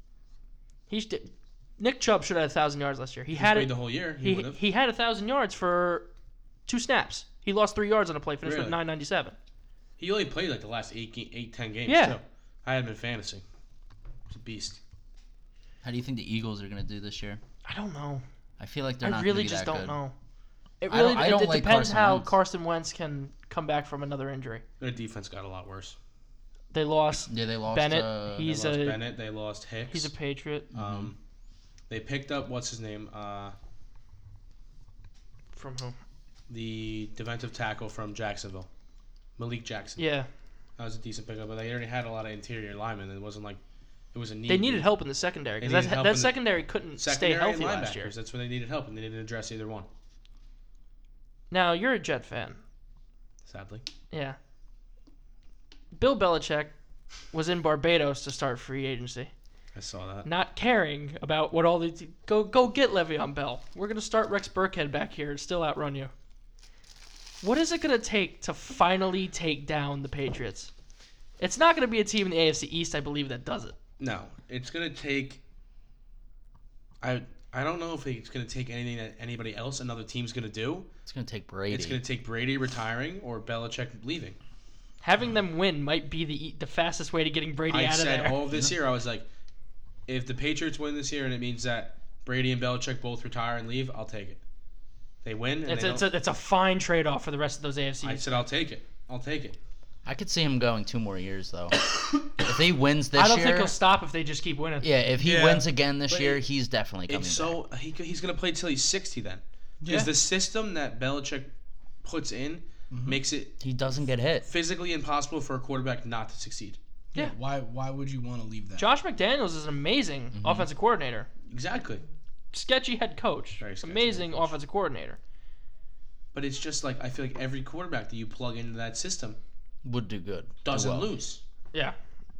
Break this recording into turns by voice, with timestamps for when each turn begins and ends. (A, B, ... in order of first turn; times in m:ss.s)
0:00.9-0:06.1 A
0:03.3-0:04.6 B
0:06.7-0:09.3 A
0:08.4-0:08.8 B
0:10.0-0:13.4 B
0:11.9-0:12.2 A
0:14.3-0:14.8 B
0:15.8-0:17.4 C
0:17.6-0:18.2 A
0:18.6-0:20.0 C
0:19.0-0:20.1 A
0:20.8-0:24.6 A
0:20.9-0:22.3 C
0:24.8-0:26.0 B
0:26.7-0:29.0 A
0:27.3-0:28.5 C
0:28.4-0:30.1 B
0:29.9-0:30.7 A
0:30.7-0:31.1 C
0:30.7-0:31.2 B
0:31.9-0:33.5 B
0:35.5-0:35.9 A
0:36.5-0:38.7 B
0:39.4-0:40.0 B
0:40.0-0:40.3 A
0:40.8-0:43.6 B
0:44.1-0:44.9 B
0:44.5-0:48.1 A
0:45.6-0:49.9 B
0:51.5-0:52.6 A
0:53.4-0:53.8 B
0:54.1-0:54.4 A
0:55.9-0:56.7 A
0:57.3-0:59.3 A
0:59.7-1:00.3 B
1:00.2-1:06.1 A
1:07.4-1:10.7 A
1:11.4-1:13.7 A
1:14.0-1:15.4 B
1:17.0-1:20.9 B
1:21.1-1:22.0 C
1:21.7-1:24.4 B
1:25.0-1:28.4 A
1:27.7-1:29.2 B
1:30.1-1:34.4 B
1:35.2-1:36.1 B
1:35.6-1:38.4 A
1:38.0-1:39.6 B
1:40.0-1:43.7 C
1:43.1-1:44.9 A
1:44.8-1:47.6 C
1:45.2-1:46.4 B
1:47.1-1:51.5 B
1:49.8-1:50.1 D
1:52.0-1:53.6 B
1:52.9-1:53.2 D
1:53.6-1:54.5 C
1:54.4-1:56.8 B
1:57.1-1:58.9 D
1:58.8-2:01.3 A
2:00.3-2:00.7 C
2:01.5-2:02.0 B
2:02.5-2:05.2 A
2:03.6-2:04.5 B
2:06.3-2:09.4 B
2:09.8-2:11.1 C
2:10.6-2:11.4 B